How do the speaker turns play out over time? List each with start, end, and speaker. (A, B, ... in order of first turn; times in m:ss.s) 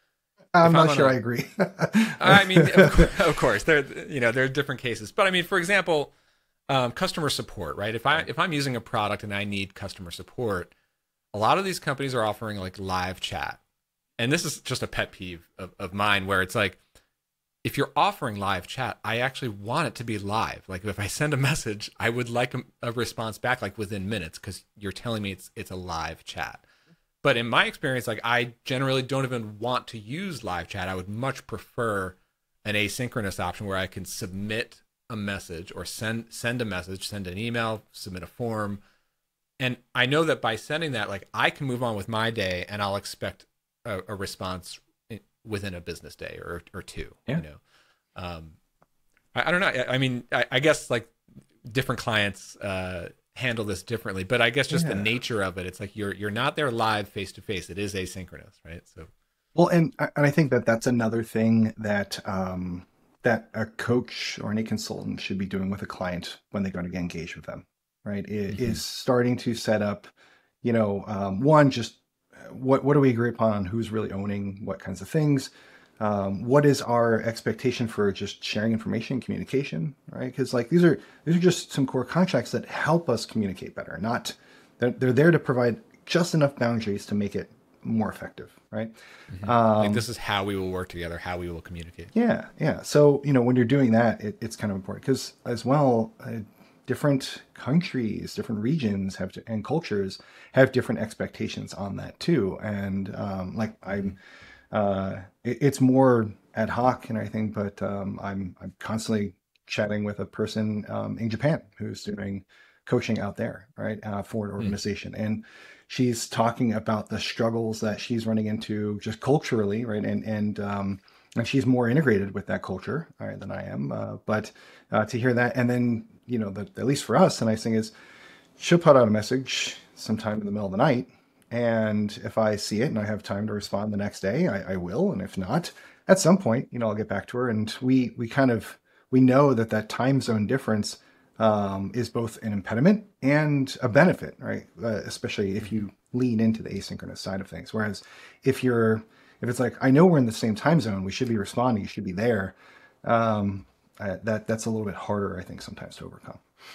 0:00.5-0:03.1 A
0:00.6-0:01.1 B
0:02.2-0:06.1 B
0:06.7-0:10.7 B
0:11.3-0:13.6 B
0:14.2-0:16.8 B
0:17.6-0:26.6 B
0:27.2-0:38.8 B
0:39.6-0:47.6 B
0:48.2-0:48.6 B
0:49.3-0:51.1 B
0:51.7-0:59.1 B
0:54.7-0:55.1 A
0:59.5-1:10.1 A
1:08.5-1:08.8 B
1:10.6-1:30.0 A
1:29.3-1:32.1 B
1:32.1-1:44.2 A
1:44.7-2:07.9 A
2:08.6-2:36.4 A